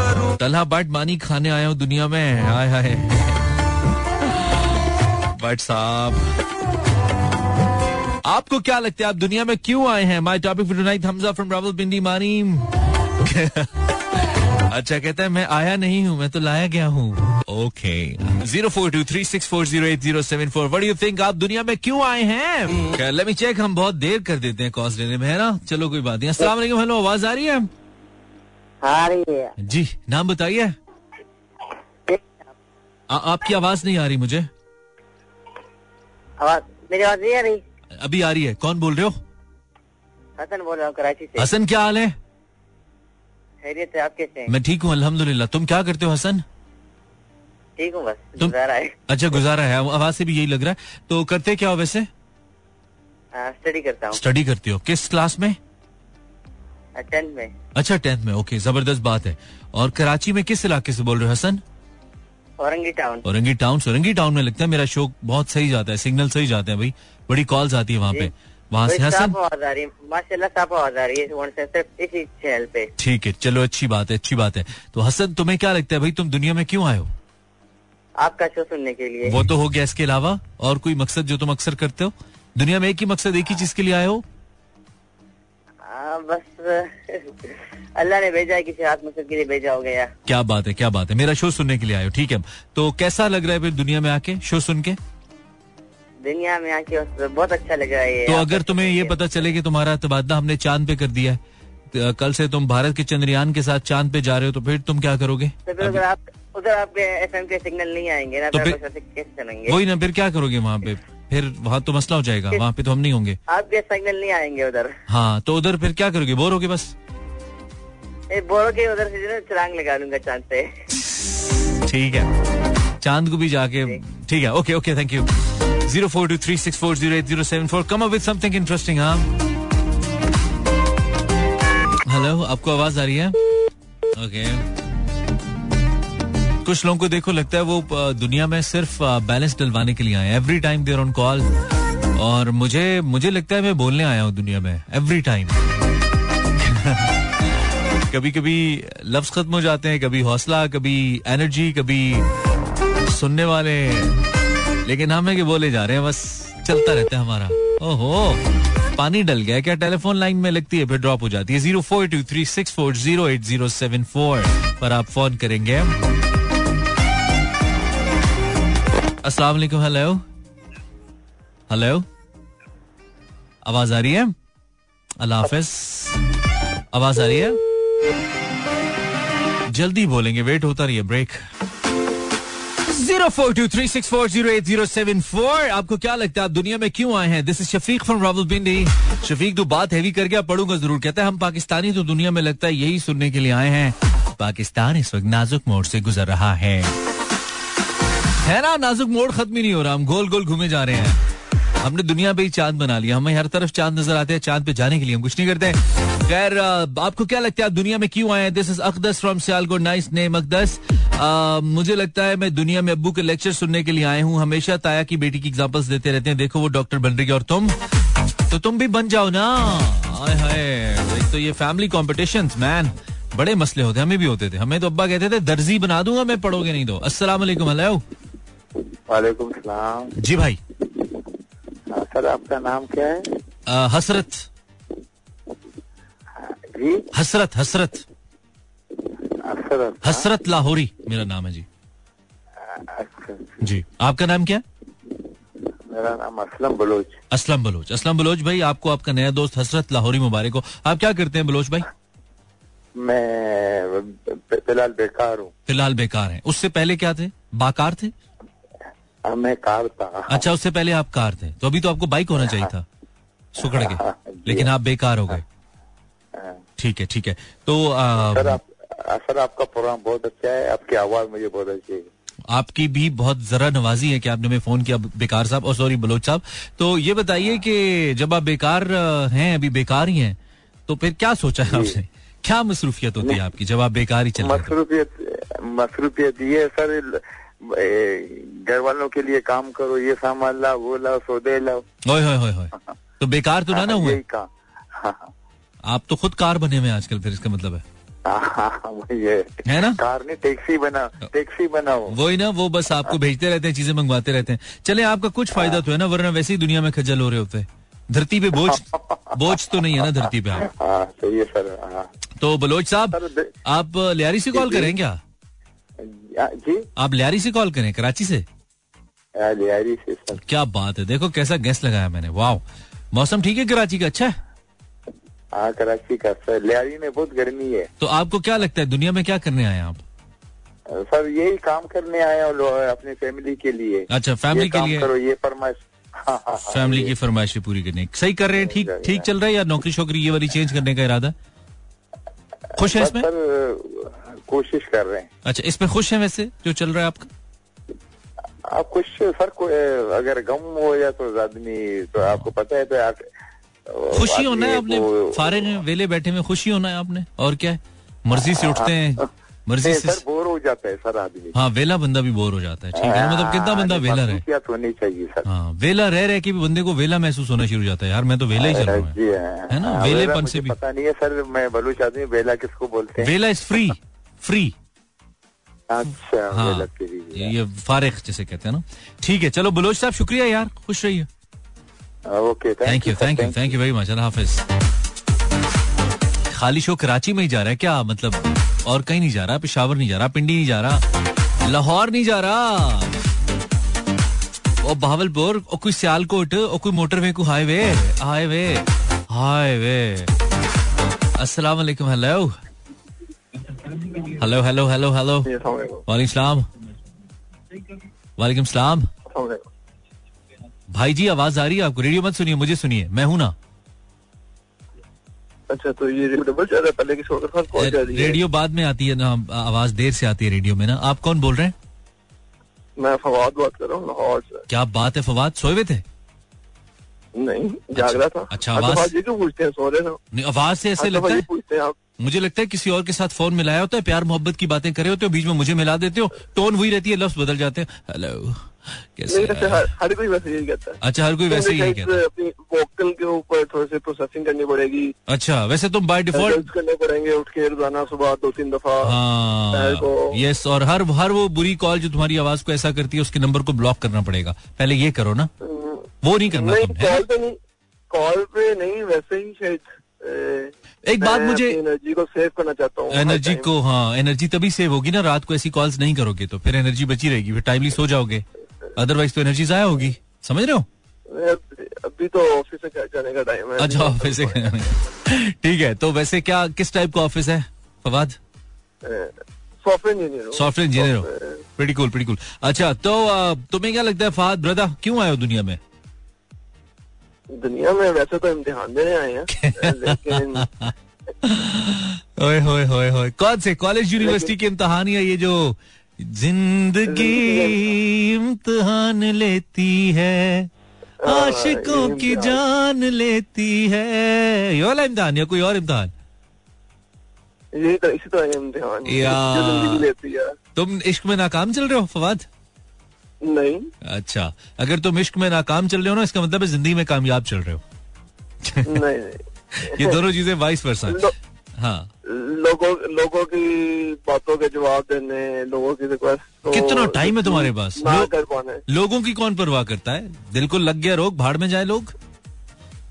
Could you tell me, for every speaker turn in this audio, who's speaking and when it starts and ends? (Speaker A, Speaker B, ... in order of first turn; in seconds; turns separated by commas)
Speaker A: 0.3-3.5, Speaker A: 5.3-6.3, Speaker A: 8.2-13.9, Speaker A: 14.7-27.7, Speaker B: 28.8-29.5, Speaker A: 29.6-30.8, Speaker B: 32.1-32.5, Speaker A: 33.1-34.5, Speaker B: 36.4-37.6, Speaker A: 38.0-39.2, Speaker B: 40.4-41.5, Speaker A: 41.4-42.1, Speaker B: 43.6-44.5, Speaker A: 44.5-46.4, Speaker B: 47.8-49.0, Speaker A: 49.1-52.1, Speaker B: 53.4-54.2, Speaker A: 54.1-55.6, Speaker B: 57.0-57.5, Speaker A: 57.8-61.6, Speaker B: 62.6-63.2, Speaker A: 63.2-69.3, Speaker B: 68.8-72.9, Speaker A: 73.0-77.1, Speaker B: 78.2-79.4, Speaker A: 79.2-84.2, Speaker B: 85.8-87.3, Speaker B: 88.0-90.1, Speaker A: 90.2-95.0, Speaker B: 96.2-99.5, Speaker A: 98.2-101.4, Speaker A: 101.9-106.0, Speaker B: 105.7-109.8, Speaker A: 108.5-108.8, Speaker A: 109.7-113.4, Speaker B: 113.5-115.0, Speaker A: 115.1-116.9, Speaker B: 118.3-120.8, Speaker A: 121.1-122.3, Speaker A: 123.0-129.3, Speaker A: 132.1-133.3, Speaker A: 134.1-134.7, Speaker A: 136.6-141.5, Speaker A: 142.1-145.6, Speaker A: 146.6-147.1, Speaker A: 148.1-152.3, Speaker A: 153.1-154.2, Speaker A: 154.8-158.4, Speaker A: 158.9-165.9, Speaker A: 169.2-170.2, Speaker A: 171.7-172.1, Speaker A: 173.6-174.3, Speaker A: 175.2-176.2, Speaker A: 176.9-177.6, Speaker A: 179.7-181.4, Speaker A: 182.9-196.9, Speaker A: 198.4-201.2, Speaker A: 201.8-217.8, Speaker A: 218.5-228.0, Speaker C: 229.1-230.1, Speaker A: 230.2-230.6, Speaker C: 231.9-233.3, Speaker A: 233.7-234.5, Speaker C: 236.4-237.1, Speaker A: 237.1-238.0, Speaker C: 239.3-240.3, Speaker A: 240.0-241.7, Speaker C: 242.6-243.6, Speaker A: 243.6-244.6, Speaker C: 245.9-247.2, Speaker A: 247.3-251.8, Speaker C: 253.0-255.5, Speaker A: 255.7-258.1, Speaker C: 259.2-260.4, Speaker A: 260.3-262.9, Speaker C: 262.4-262.7, Speaker A: 263.5-265.4, Speaker C: 263.6-264.7, Speaker C: 266.3-266.6, Speaker A: 266.8-268.6, Speaker C: 268.1-272.1, Speaker A: 272.5-284.7, Speaker C: 281.6-281.9, Speaker C: 284.4-291.9, Speaker A: 292.1-294.2, Speaker C: 293.7-295.3, Speaker A: 295.9-297.8, Speaker C: 298.2-302.2, Speaker A: 299.6-300.0, Speaker A: 302.1-310.7, Speaker C: 308.6-312.1, Speaker A: 312.4-315.2, Speaker C: 313.1-313.5, Speaker C: 314.5-314.9, Speaker C: 316.0-316.9, Speaker A: 317.0-318.4, Speaker C: 319.4-320.4, Speaker A: 320.4-324.4, Speaker C: 325.5-327.9, Speaker A: 328.0-330.0, Speaker C: 330.9-337.1, Speaker A: 334.1-335.1, Speaker A: 336.7-341.3, Speaker C: 338.6-339.3, Speaker A: 342.8-343.3, Speaker C: 342.8-345.3, Speaker A: 345.4-347.3, Speaker C: 348.6-353.3, Speaker C: 353.9-355.7, Speaker A: 354.1-360.2, Speaker C: 358.3-359.3, Speaker C: 359.8-361.5, Speaker A: 361.5-364.4, Speaker C: 362.9-365.4, Speaker A: 365.4-369.2, Speaker C: 368.6-373.3, Speaker A: 369.7-370.7, Speaker A: 373.2-374.7, Speaker C: 375.9-377.5, Speaker A: 376.5-381.3, Speaker C: 382.2-383.7, Speaker A: 382.8-384.6, Speaker A: 386.5-391.0, Speaker A: 391.6-393.1, Speaker A: 394.8-400.3, Speaker A: 401.4-402.6, Speaker A: 404.3-405.5, Speaker D: 405.4-406.0, Speaker A: 406.1-406.7, Speaker A: 408.4-409.1, Speaker D: 409.3-409.6, Speaker A: 410.9-413.5, Speaker D: 415.7-418.4, Speaker A: 417.7-421.7, Speaker D: 423.0-424.6, Speaker A: 424.7-426.0, Speaker D: 427.4-430.2, Speaker A: 427.9-429.1, Speaker A: 430.3-431.4, Speaker D: 431.0-431.9, Speaker A: 432.2-439.9, Speaker D: 439.3-441.0, Speaker A: 441.0-442.2, Speaker D: 441.5-445.1, Speaker A: 445.3-446.7, Speaker D: 446.3-449.1, Speaker A: 449.0-455.5, Speaker D: 449.7-450.3, Speaker D: 455.6-457.6, Speaker A: 456.2-457.2, Speaker D: 458.1-463.7, Speaker A: 461.0-461.8, Speaker A: 463.1-468.4, Speaker A: 468.9-470.9, Speaker D: 471.3-474.7, Speaker A: 473.8-478.4, Speaker D: 479.0-481.6, Speaker A: 480.5-485.8, Speaker D: 487.5-490.7, Speaker A: 489.5-500.7, Speaker D: 494.2-494.5, Speaker D: 497.1-497.9, Speaker D: 501.2-502.6, Speaker A: 501.2-506.1, Speaker D: 507.7-510.5, Speaker A: 509.1-510.1, Speaker A: 510.8-512.5, Speaker D: 513.4-513.9, Speaker A: 514.0-517.8, Speaker A: 518.6-519.0, Speaker D: 518.9-520.2, Speaker A: 519.8-522.1, Speaker D: 521.1-521.3, Speaker D: 522.3-528.8, Speaker A: 526.6-528.3, Speaker A: 528.9-532.1